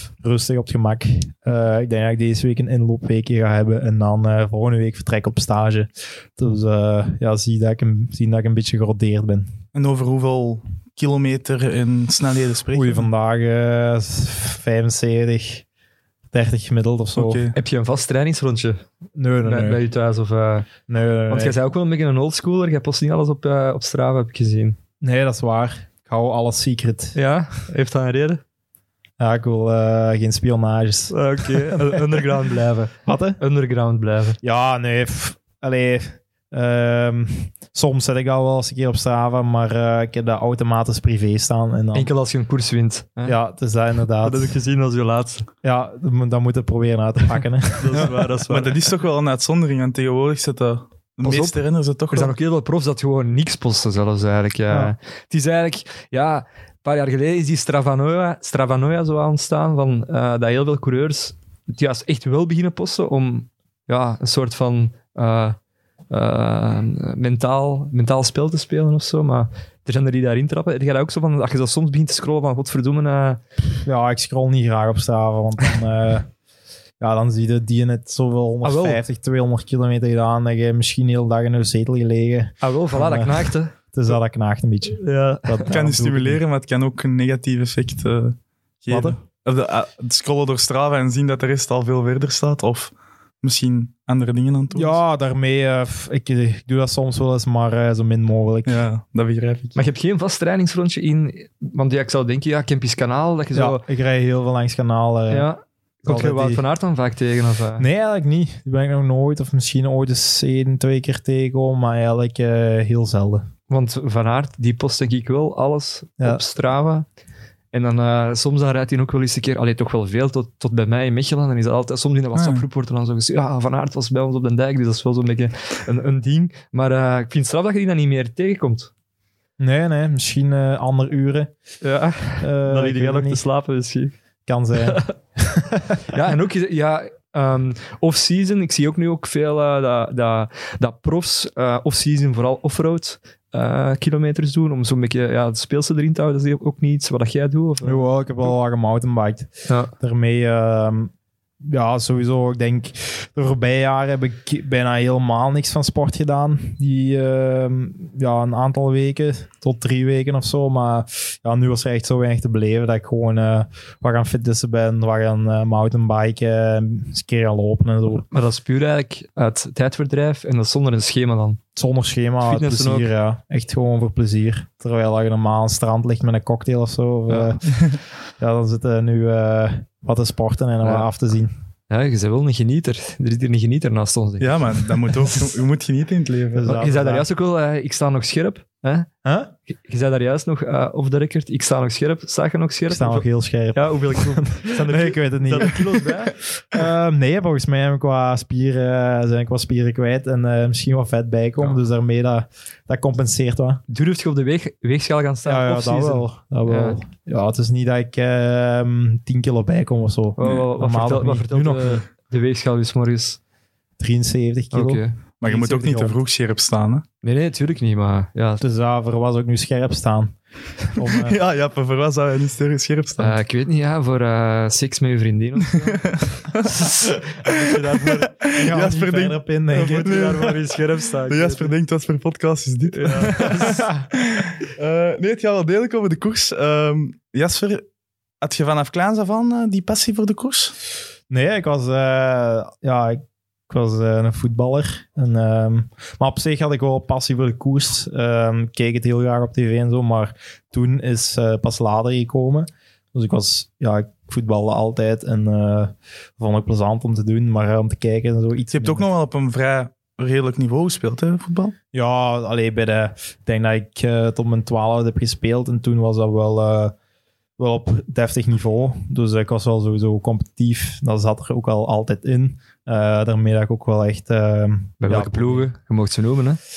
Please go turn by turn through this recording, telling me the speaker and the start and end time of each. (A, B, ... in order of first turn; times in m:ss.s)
0:00.2-0:09.6 A
0:09.7-0:13.1 B
0:12.7-0:15.6 A
0:16.3-0:17.4 A
0:17.2-0:17.5 B
0:17.5-0:18.8 C
0:19.2-0:19.8 A
0:19.4-0:20.7 C
0:20.9-0:21.6 A
0:21.3-0:24.8 C
0:25.0-0:27.2 A
0:27.1-0:28.4 C
0:29.2-0:32.3 A
0:31.1-0:34.4 C
0:33.0-0:33.4 A
0:34.4-0:42.1 A
0:41.9-0:43.4 C
0:43.2-0:44.6 A
0:44.2-0:45.5 C
0:45.6-0:48.1 A
0:47.8-0:48.8 C
0:47.9-0:52.4 B
0:51.2-0:51.6 C
0:52.1-1:05.6 C
1:06.1-1:13.4 C
1:13.7-1:16.3 A
1:17.0-1:26.4 A
1:18.6-1:19.0 C
1:22.6-1:23.7 C
1:25.0-1:25.7 C
1:25.7-1:35.0 B
1:28.9-1:29.2 A
1:34.7-1:38.8 A
1:38.6-1:39.8 B
1:39.8-1:43.8 C
1:43.5-1:45.5 A
1:45.3-1:47.9 C
1:46.0-1:46.6 A
1:47.8-1:53.5 A
1:53.7-1:57.1 C
1:57.7-2:08.9 C
2:02.3-2:02.6 B
2:09.6-2:11.5 A
2:11.8-2:14.2 C
2:12.4-2:13.4 A
2:14.4-2:16.0 A
2:14.8-2:15.1 C
2:16.1-2:28.5 C
2:27.8-2:31.1 A
2:31.6-2:48.2 A
2:48.3-2:51.6 C
2:51.8-2:57.8 A
2:52.4-2:53.1 C
2:57.7-2:58.0 B
2:58.4-3:01.5 A
3:00.8-3:01.1 C
3:01.9-3:05.2 C
3:04.4-3:06.8 B
3:06.5-3:07.3 A
3:06.7-3:09.1 C
3:09.2-3:09.5 A
3:09.7-3:16.4 C
3:12.9-3:23.8 A
3:23.9-3:27.0 C
3:25.4-3:32.0 A
3:30.4-3:33.4 C
3:34.0-3:36.2 A
3:34.7-3:35.1 C
3:35.4-3:37.0 B
3:37.2-3:38.6 C
3:38.6-3:40.4 A
3:40.9-3:41.4 A
3:41.0-3:43.4 B
3:43.2-3:48.3 C
3:45.8-3:50.6 B
3:48.5-3:50.5 A
3:49.7-3:51.7 C
3:51.2-3:57.8 B
3:52.9-3:53.9 C
3:53.5-3:54.0 A
3:58.4-4:00.7 B
4:01.3-4:19.1 A
4:18.7-4:21.7 B
4:21.9-4:26.9 A
4:27.6-4:35.7 A
4:35.0-4:36.6 C